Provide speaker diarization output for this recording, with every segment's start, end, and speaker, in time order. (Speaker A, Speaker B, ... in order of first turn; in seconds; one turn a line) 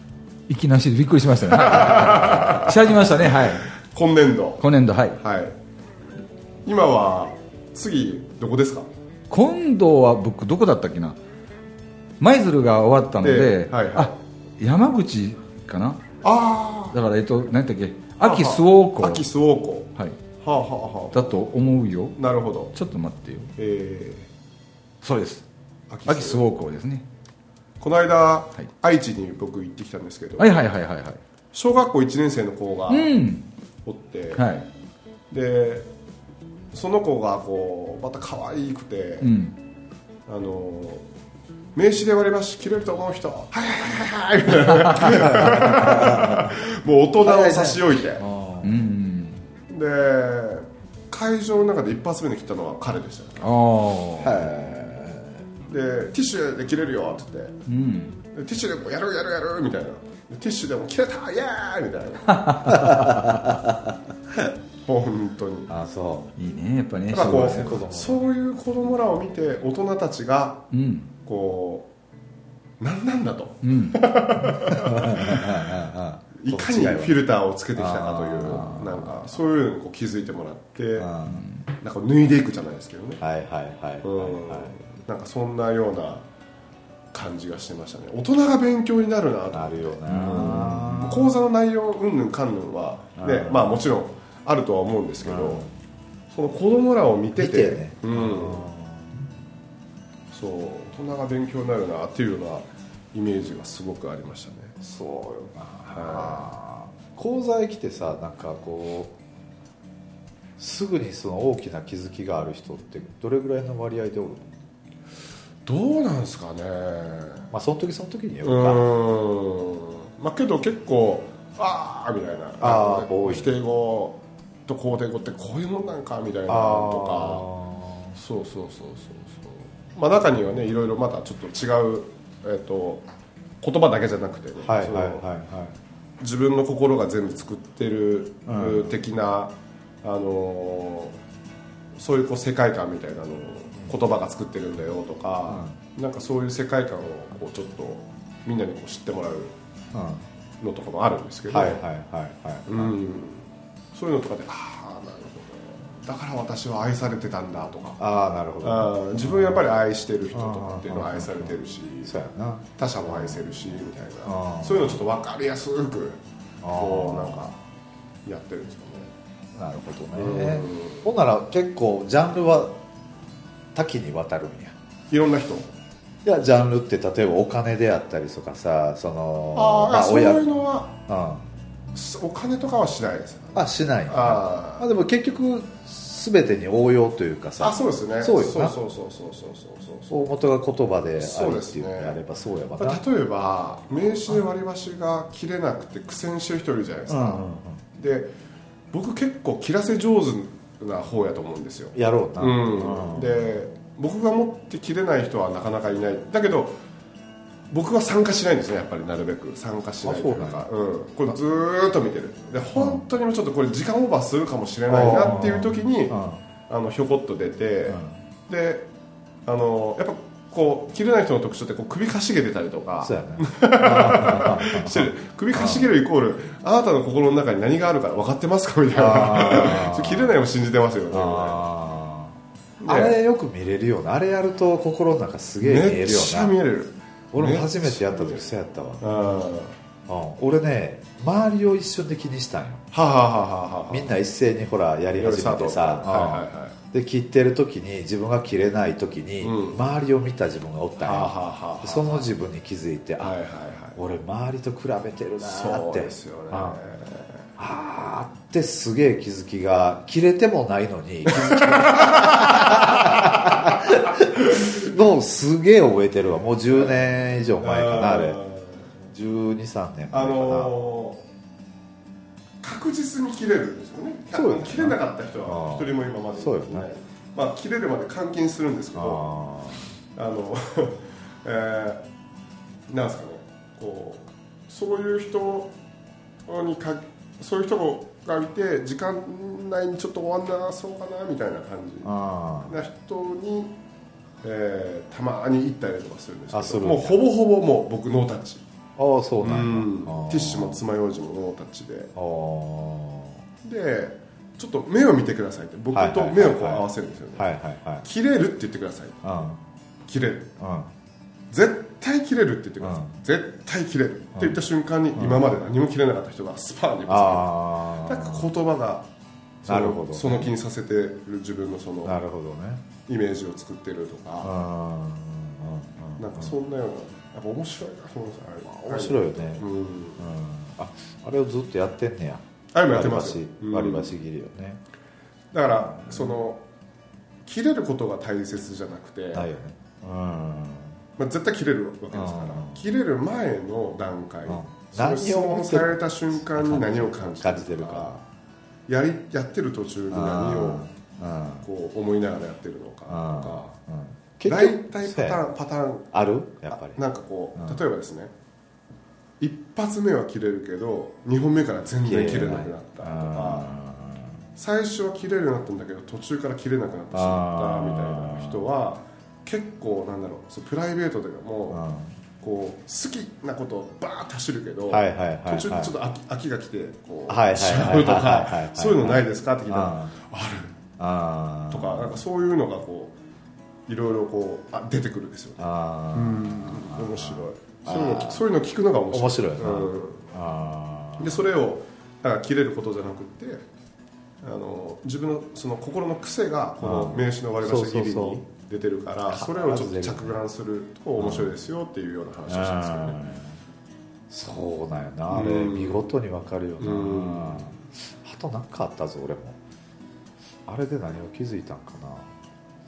Speaker A: 0.5-3.7
Speaker B: 1.5-4.6
Speaker A: 4.6-5.2
Speaker B: 5.2-5.5
Speaker B: 6.7-8.9
Speaker A: 9.3-11.2
Speaker A: 12.2-16.0
Speaker B: 13.2-14.1
Speaker B: 16.2-17.0
Speaker A: 16.9-19.2
Speaker B: 18.2-21.4
Speaker A: 21.1-22.2
Speaker B: 22.2-22.7
Speaker A: 22.7-23.5
Speaker B: 23.6-24.3
Speaker A: 25.0-25.4
Speaker B: 25.9-26.4
Speaker A: 26.1-27.0
Speaker B: 27.8-30.6
Speaker A: 30.4-31.2
Speaker B: 31.5-33.1
Speaker A: 32.9-33.5
Speaker B: 33.8-34.5
Speaker A: 34.3-34.6
Speaker B: 35.3-35.9
Speaker B: 36.7-39.3
Speaker A: 39.2-39.5
Speaker B: 40.3-41.0
Speaker B: 41.7-48.2
Speaker A: 44.6-45.0
Speaker C: 45.0-46.5
Speaker C: 47.2-48.8
Speaker A: 48.6-49.4
Speaker B: 49.7-53.5
Speaker A: 53.4-54.5
Speaker C: 54.2-55.4
Speaker B: 55.7-57.6
Speaker A: 57.7-58.2
Speaker B: 58.3-63.0
Speaker A: 62.3-63.4
Speaker C: 62.7-64.0
Speaker B: 64.8-65.7
Speaker C: 65.7-66.3
Speaker A: 66.4-67.8
Speaker B: 67.1-70.7
Speaker C: 67.1-68.2
Speaker A: 70.7-71.1
Speaker B: 71.2-71.9
Speaker B: 72.8-75.7
Speaker A: 73.6-74.1
Speaker C: 74.7-77.2
Speaker B: 76.4-81.1
Speaker C: 77.8-79.2
Speaker C: 81.0-81.5
Speaker A: 81.2-81.7
Speaker B: 81.8-83.2
Speaker C: 83.2-84.7
Speaker B: 84.0-86.2
Speaker B: 87.1-95.6
Speaker C: 89.5-91.4
Speaker A: 90.1-90.7
Speaker C: 93.2-93.8
Speaker C: 95.2-95.7
Speaker B: 96.3-98.6
Speaker C: 97.4-99.3
Speaker B: 100.3-104.8
Speaker C: 104.8-109.1
Speaker B: 105.9-106.5
Speaker C: 110.6-114.5
Speaker B: 115.7-117.4
Speaker C: 117.5-118.9
Speaker B: 118.4-127.5
Speaker C: 122.6-123.5
Speaker C: 126.5-128.2
Speaker B: 128.2-133.0
Speaker B: 133.6-135.2
Speaker C: 134.6-135.7
Speaker B: 136.2-141.2
Speaker C: 138.5-139.0
Speaker B: 141.9-149.5
Speaker C: 145.5-145.7
Speaker C: 149.9-150.2
Speaker B: 150.6-151.8
Speaker C: 151.5-152.9
Speaker B: 152.7-158.0
Speaker C: 158.0-159.7
Speaker B: 158.6-162.1
Speaker C: 160.3-165.0
Speaker B: 162.8-166.2
Speaker C: 166.6-167.5
Speaker B: 166.7-167.5
Speaker B: 168.2-169.1
Speaker C: 169.6-172.8
Speaker B: 170.1-171.0
Speaker C: 173.7-174.7
Speaker B: 175.1-175.7
Speaker C: 176.2-180.5
Speaker B: 179.5-180.9
Speaker C: 181.1-181.4
Speaker B: 181.9-184.9
Speaker C: 183.5-188.8
Speaker B: 187.6-190.2
Speaker C: 190.1-193.0
Speaker B: 191.2-192.2
Speaker B: 192.8-197.4
Speaker C: 197.1-197.8
Speaker B: 198.0-198.3
Speaker B: 198.9-206.8
Speaker C: 201.9-203.4
Speaker B: 207.7-218.9
Speaker C: 210.0-210.7
Speaker C: 212.8-213.0
Speaker C: 214.9-216.4
Speaker B: 219.4-231.7
Speaker C: 223.0-226.0
Speaker C: 228.9-230.4
Speaker C: 231.1-236.5
Speaker B: 232.8-233.2
Speaker B: 235.6-238.4
Speaker C: 237.3-239.1
Speaker B: 239.0-239.7
Speaker C: 240.1-242.8
Speaker B: 242.9-244.1
Speaker C: 243.9-253.4
Speaker B: 245.2-246.8
Speaker B: 249.4-249.8
Speaker B: 251.0-252.3
Speaker B: 253.2-254.0
Speaker C: 253.9-256.8
Speaker B: 255.4-257.4
Speaker C: 257.6-268.4
Speaker B: 261.3-263.5
Speaker B: 267.6-268.9
Speaker C: 269.1-270.7
Speaker B: 270.1-271.2
Speaker B: 272.6-279.2
Speaker C: 274.3-276.9
Speaker C: 278.9-279.9
Speaker B: 280.1-282.0
Speaker B: 282.9-285.7
Speaker B: 286.4-292.1
Speaker C: 292.0-292.8
Speaker B: 292.7-293.8
Speaker B: 294.4-298.6
Speaker C: 296.5-297.2
Speaker C: 299.0-300.8
Speaker B: 299.4-302.1
Speaker C: 302.1-303.4
Speaker B: 303.6-307.5
Speaker C: 305.9-306.9
Speaker C: 307.4-308.1
Speaker B: 308.0-309.2
Speaker C: 309.2-309.6
Speaker B: 310.1-310.5
Speaker C: 310.6-310.9
Speaker B: 311.5-319.1
Speaker C: 312.8-313.1
Speaker C: 315.2-315.5
Speaker C: 317.1-318.5
Speaker B: 319.6-322.1
Speaker C: 319.6-320.5
Speaker C: 322.0-322.8
Speaker B: 323.1-324.5
Speaker C: 324.4-326.5
Speaker B: 326.2-330.3
Speaker C: 328.7-329.6
Speaker C: 330.2-334.8
Speaker B: 332.7-334.1
Speaker B: 335.5-336.6
Speaker C: 335.9-336.3
Speaker B: 337.4-339.5
Speaker C: 339.3-341.0
Speaker B: 341.2-348.1
Speaker C: 342.1-342.8
Speaker C: 344.5-348.2
Speaker B: 348.9-350.8
Speaker C: 350.1-351.6
Speaker B: 351.6-353.7
Speaker C: 353.1-355.4
Speaker B: 354.4-356.1
Speaker C: 356.1-357.0
Speaker B: 356.8-358.3
Speaker B: 359.4-363.7
Speaker C: 362.0-364.4
Speaker B: 364.6-371.8
Speaker C: 367.1-368.7
Speaker C: 371.7-372.1
Speaker B: 372.4-380.8
Speaker C: 374.9-375.9
Speaker C: 377.3-380.1
Speaker C: 381.0-382.2
Speaker B: 381.7-383.1
Speaker B: 383.9-390.2
Speaker C: 385.6-388.4
Speaker C: 389.1-391.5
Speaker B: 391.2-393.6
Speaker B: 394.4-403.2
Speaker C: 396.8-398.4
Speaker C: 399.3-400.4
Speaker C: 401.2-401.5
Speaker C: 402.5-403.5
Speaker C: 404.3-409.6
Speaker B: 405.3-406.1
Speaker B: 406.8-407.7
Speaker C: 410.6-412.3